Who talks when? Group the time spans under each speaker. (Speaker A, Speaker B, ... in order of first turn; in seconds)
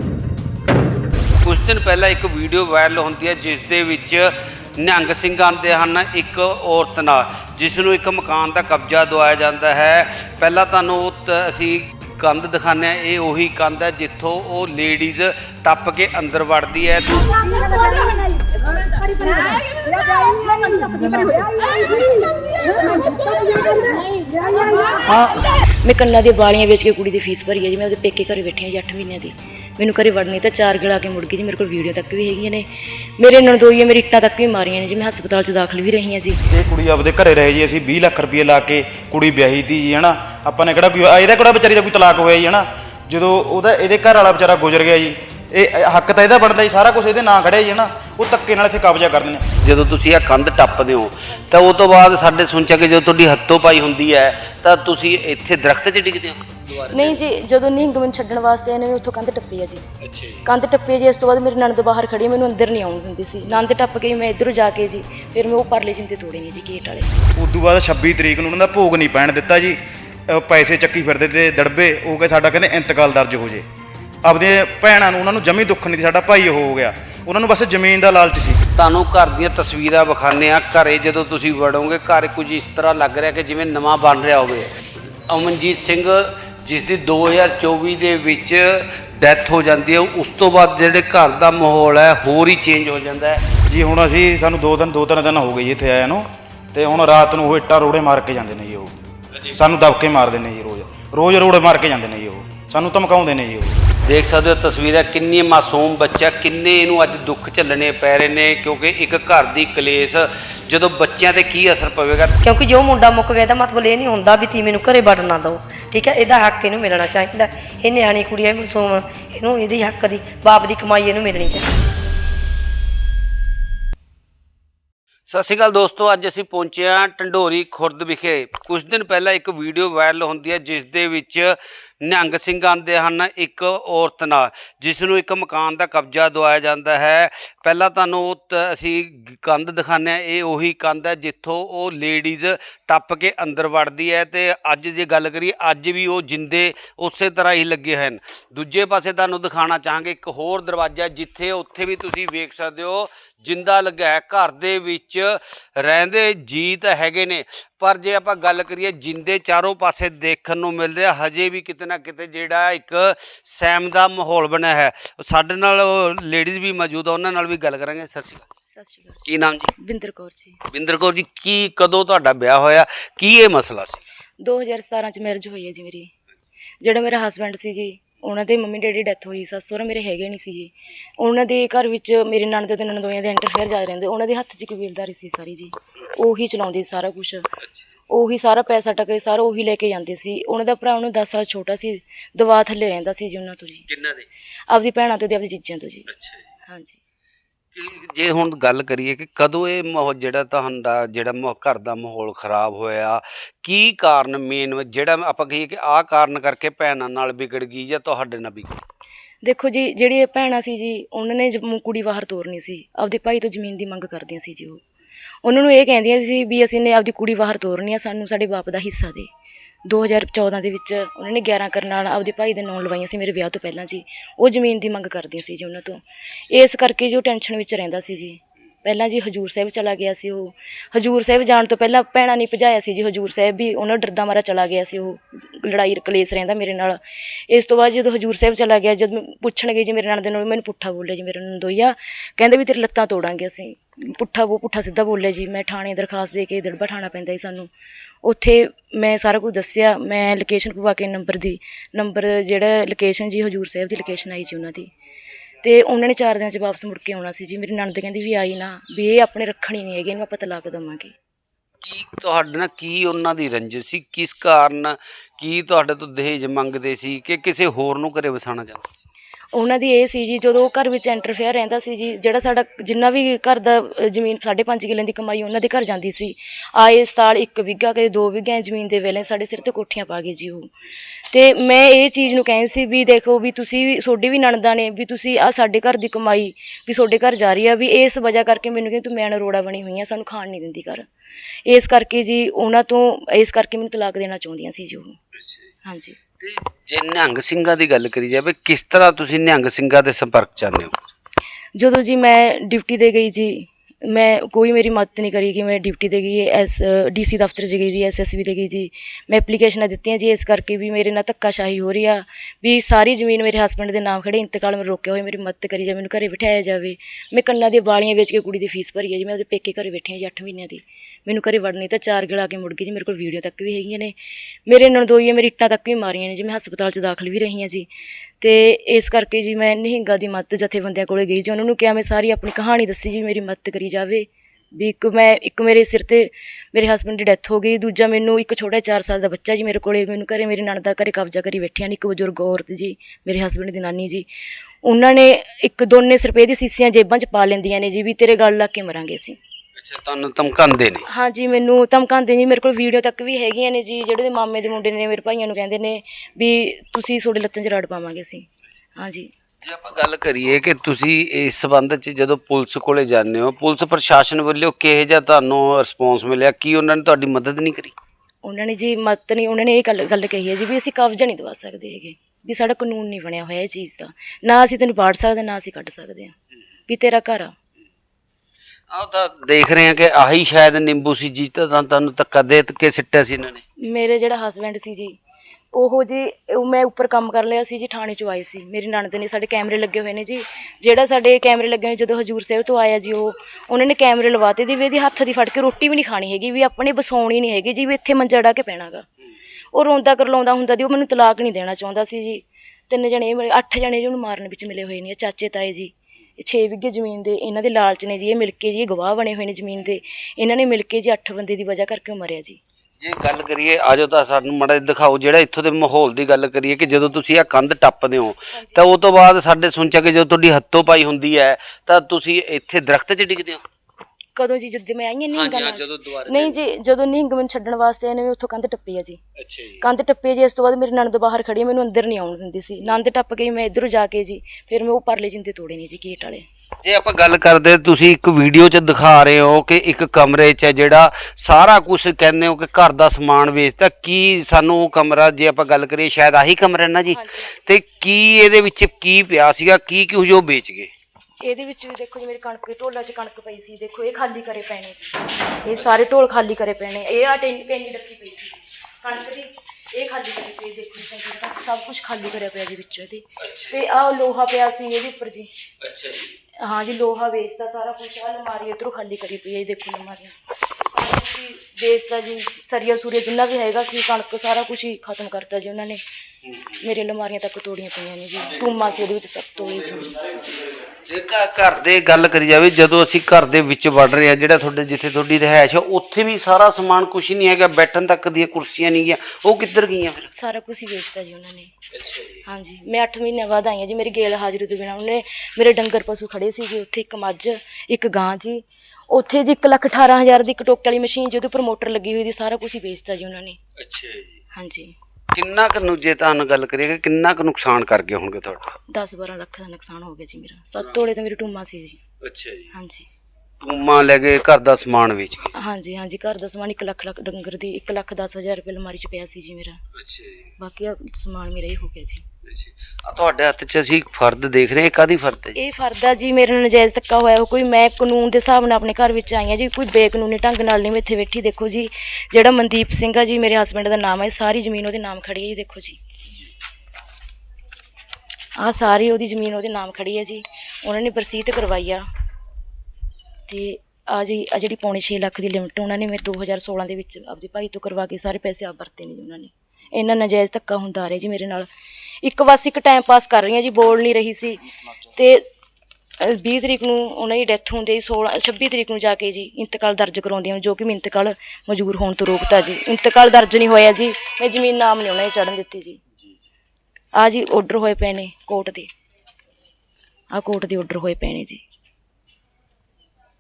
Speaker A: 1.4-17.4, 49.6-57.2, 60.0-60.5, 78.8-84.7, 85.3-93.5, 104.0-112.4, 125.3-168.5, 169.3-169.7, 170.7-174.0, 187.6-187.9, 193.9-194.3, 196.1-196.5, 197.8-208.8, 261.8-268.9, 296.4-301.0, 349.8-351.1, 359.6-367.9, 378.9-383.6, 413.0-423.6, 425.3-426.6, 429.4-429.8, 436.8-450.9, 463.4-463.8, 465.8-466.4, 476.5-476.8, 481.1-490.3, 491.9-492.4, 503.8-504.4, 505.3-508.8, 512.2-512.7, 513.6-515.5, 519.9-520.5, 522.5-525.6
Speaker B: 25.8-32.7, 33.2-36.4, 56.9-59.9, 60.5-67.1, 168.7-169.2, 169.8-170.6, 174.4-176.1, 176.8-187.5, 188.1-193.9, 194.7-196.1, 196.7-197.0, 209.4-214.8, 215.4-219.3, 219.9-247.7, 248.2-254.9, 255.6-261.1, 269.5-280.7, 281.3-291.1, 291.7-295.2, 295.9-296.2, 301.8-324.1, 324.7-327.9, 328.4-344.3, 344.8-349.4, 351.1-359.3, 368.4-376.4, 376.9-377.6, 383.8-385.2, 385.7-399.1, 399.7-412.6, 418.5-418.8, 424.4-429.2, 429.8-436.5, 447.1-447.8, 451.4-465.5, 466.6-470.4, 470.9-476.0, 476.8-480.3, 490.3-491.7, 492.5-503.6, 504.5-504.9, 508.9-512.0, 512.7-513.1, 515.5-519.8, 520.6-522.2, 525.6-536.0, 538.6-542.1, 543.5-551.7, 552.2-554.6, 555.1-555.5, 556.2-566.0, 567.1-568.9, 570.3-571.6
Speaker C: 36.5-49.5, 67.4-73.6, 74.2-78.6, 93.7-99.0, 99.5-103.8
Speaker D: 112.4-121.7